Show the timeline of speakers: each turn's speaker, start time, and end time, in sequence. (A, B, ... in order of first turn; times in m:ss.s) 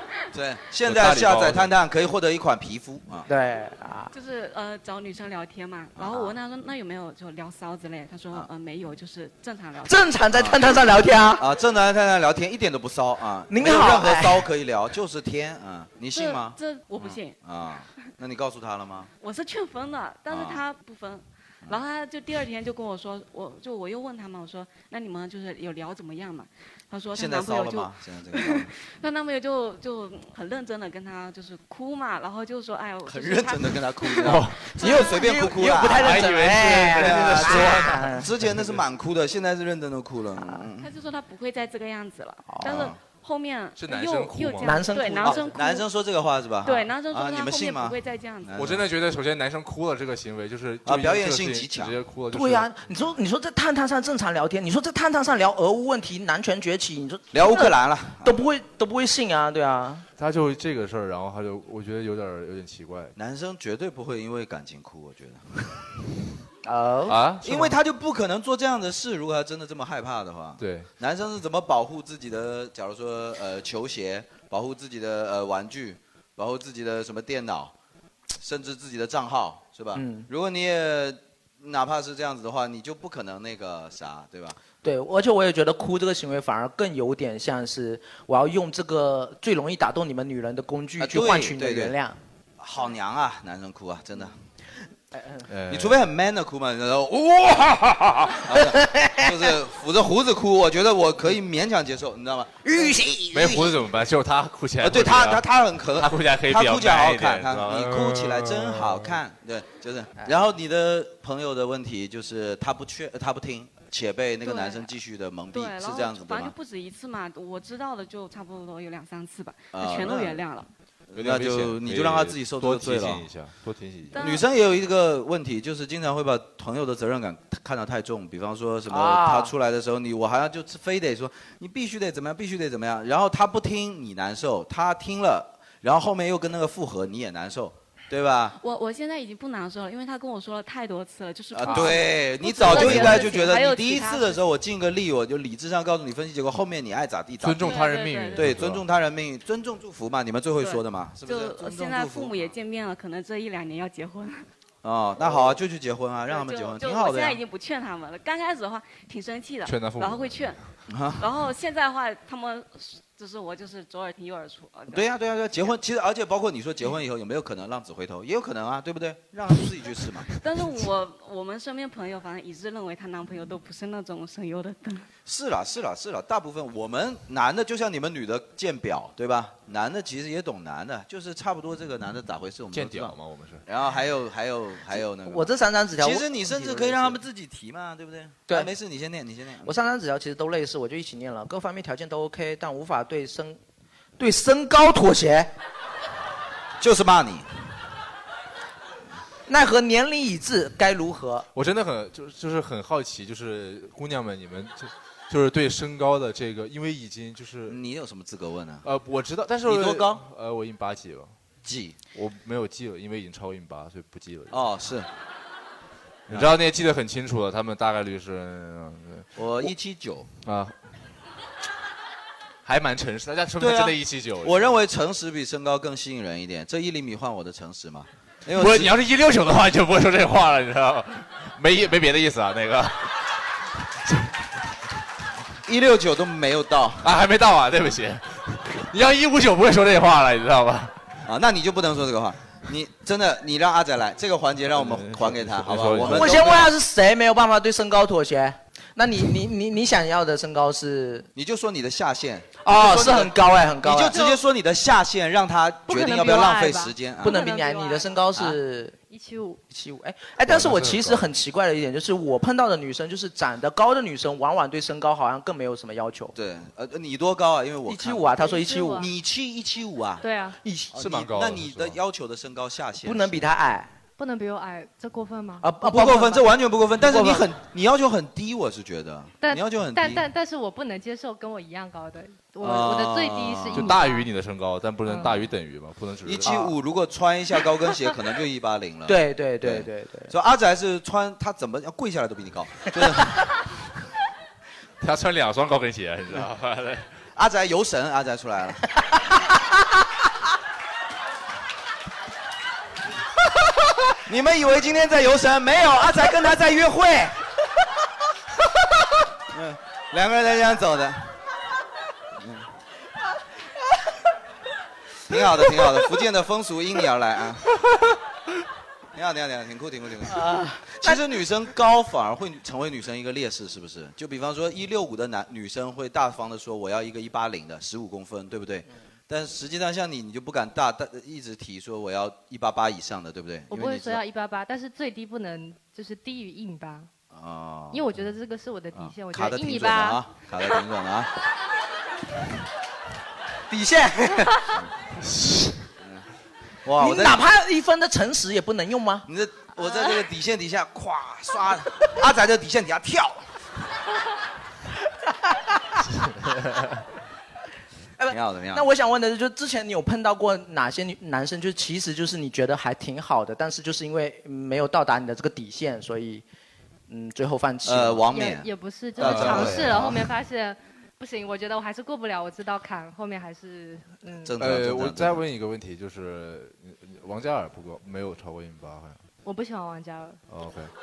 0:00.3-0:03.3 A
0:00.8-0:01.7 B
0:03.3-0:04.1 C
0:04.1-0:10.0 D
0:06.0-0:06.4 A
0:09.8-0:11.4 C
0:11.4-0:19.1 A
0:13.5-0:14.5 C
0:16.1-0:17.4 D
0:19.2-0:35.1 D
0:20.3-0:20.6 A
0:27.2-0:28.7 A
0:33.0-0:40.9 A
0:34.2-0:34.7 B
0:34.8-0:38.3 C
0:35.9-0:38.2 B
0:40.4-0:40.6 C
0:40.8-0:45.9 D
0:42.5-0:42.9 C
0:42.6-0:43.0 A
0:43.8-0:45.0 B
0:44.6-0:45.6 C
0:45.2-0:48.8 A
0:46.6-0:48.6 D
0:48.6-0:53.1 B
0:50.8-0:52.0 A
0:52.3-1:00.0 C
0:57.3-0:58.4 A
1:00.2-1:03.1 B
1:03.2-1:05.9 A
1:06.6-1:07.2 C
1:07.1-1:07.8 B
1:07.4-1:17.7 A
1:10.6-1:10.9 B
1:18.4-1:24.6 A
1:20.0-1:20.3 C
1:24.8-1:32.2 C
1:31.0-1:32.0 A
1:32.6-1:34.4 A
1:35.2-1:35.4 C
1:35.5-1:36.0 B
1:35.7-1:43.8 A
1:38.7-1:39.3 C
1:42.6-1:43.1 C
1:43.3-1:49.2 B
1:44.8-1:56.6 A
1:54.4-1:54.9 D
1:55.5-2:00.7 D
1:59.7-2:00.4 A
2:01.1-2:03.3 A
2:01.2-2:04.2 B
2:04.1-2:04.5 D
2:04.2-2:18.6 A
2:08.9-2:09.5 C
2:18.6-2:24.4 D
2:21.5-2:32.6 A
2:22.6-2:23.4 B
2:27.4-2:28.8 B
2:27.6-2:28.5 D
2:30.6-2:34.4 D
2:34.8-2:37.4 A
2:36.3-2:40.6 D
2:39.6-2:40.6 B
2:40.9-2:41.3 A
2:41.2-2:45.1 D
2:44.9-2:50.4 A
2:50.3-2:55.1 D
2:55.3-3:03.2 A
3:02.7-3:03.6 B
3:03.7-3:09.7 A
3:05.0-3:07.2 C
3:09.7-3:13.6 C
3:14.2-3:15.5 C
3:16.8-3:17.5 A
3:19.5-3:21.5 C
3:21.5-3:27.8 B
3:27.7-3:28.9 A
3:28.8-3:31.4 B
3:29.6-3:30.2 A
3:31.6-3:32.0 A
3:32.2-3:34.7 B
3:34.5-3:35.1 A
3:36.3-3:39.7 B
3:39.4-3:40.3 A
3:40.4-3:40.8 B
3:42.6-3:44.8 B
3:43.6-3:48.9 A
3:48.5-3:53.2 B
3:54.0-3:54.3 B
3:55.7-3:57.1 A
3:57.0-4:01.1 B
4:01.3-4:06.7 A
4:04.7-4:06.5 B
4:06.1-4:11.3 C
4:11.4-4:17.4 A
4:12.6-4:14.2 C
4:15.9-4:18.2 E
4:17.2-4:19.0 C
4:19.1-4:19.6 E
4:19.7-4:26.3 C
4:20.5-4:21.3 B
4:26.4-4:30.3 A
4:27.9-4:29.1 C
4:28.4-4:29.1 E
4:30.2-4:30.6 E
4:30.6-4:30.9 C
4:30.9-4:32.0 B
4:31.0-4:33.4 A
4:33.0-4:33.9 C
4:34.2-4:35.7 E
4:35.6-4:37.5 C
4:35.8-4:40.3 A
4:39.4-4:44.3 E
4:42.6-4:44.0 A
4:43.7-4:46.6 B
4:46.3-4:53.5 A
4:46.4-4:46.7 C
4:49.1-4:50.3 C
4:55.0-4:57.1 B
4:57.4-4:58.8 A
5:04.3-5:07.4 A
5:09.5-5:11.3 A
5:12.4-5:12.7 A
5:15.3-5:17.7 A
5:19.2-5:34.2 A
5:20.3-5:21.2 C
5:33.7-5:37.1 E
5:37.3-5:38.2 A
5:37.9-5:40.2 E
5:38.9-5:41.3 A
5:43.7-5:44.7 C
5:45.2-5:45.7 B
5:46.8-5:47.4 A
5:47.0-5:49.3 C
5:49.3-5:53.4 A
5:58.2-6:06.4 C
5:58.3-5:58.8 A
6:07.1-6:08.2 C
6:07.8-6:10.3 A
6:08.3-6:14.5 E
6:09.2-6:10.1 B
6:14.4-6:15.4 A
6:14.6-6:19.2 B
6:19.4-6:20.4 E
6:20.5-6:20.9 B